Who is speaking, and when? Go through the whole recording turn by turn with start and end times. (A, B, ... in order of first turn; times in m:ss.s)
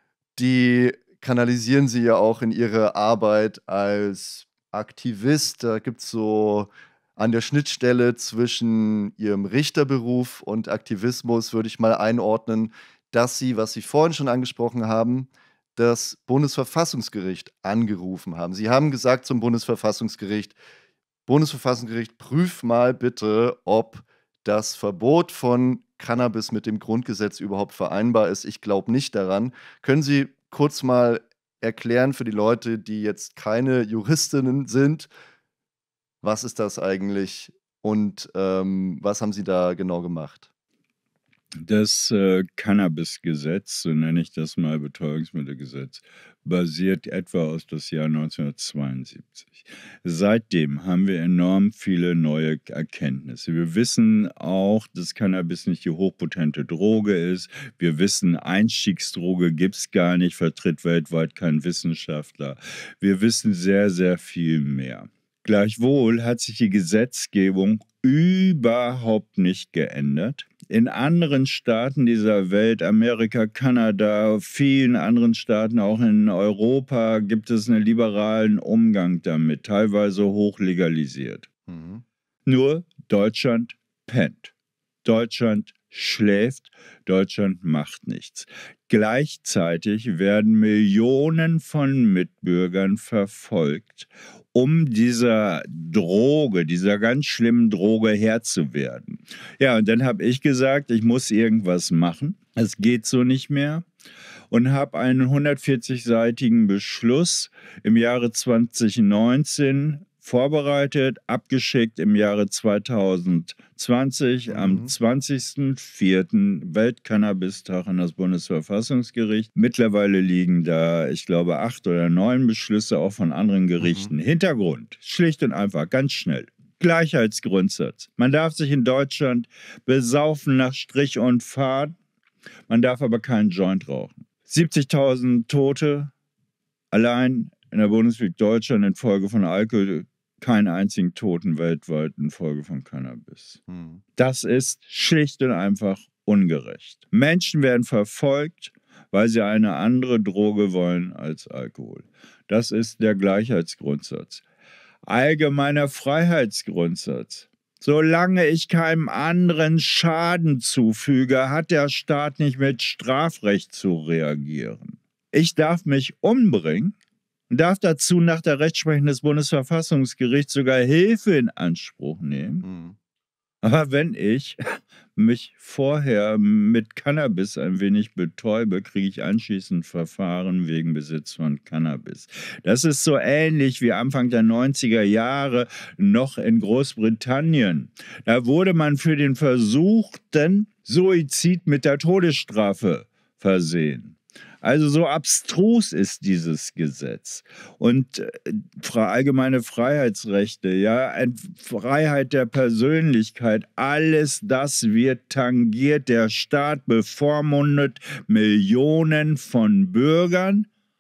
0:00.4-0:20.6 A
0:21.3-0:35.1 A
0:36.2-0:40.5 A
0:41.6-1:21.5 B
1:21.7-1:22.0 A
1:22.5-1:24.5 B
1:25.0-1:43.8 B
1:44.5-2:12.0 B
1:54.5-1:54.9 A
2:03.8-2:04.1 A
2:12.7-2:16.1 B
2:16.9-2:23.6 B
2:23.7-2:24.0 A
2:24.2-2:34.4 B
2:35.1-2:47.0 B
2:47.5-2:52.7 B
2:52.6-2:53.0 A
2:53.6-2:54.6 B
2:55.2-3:30.7 B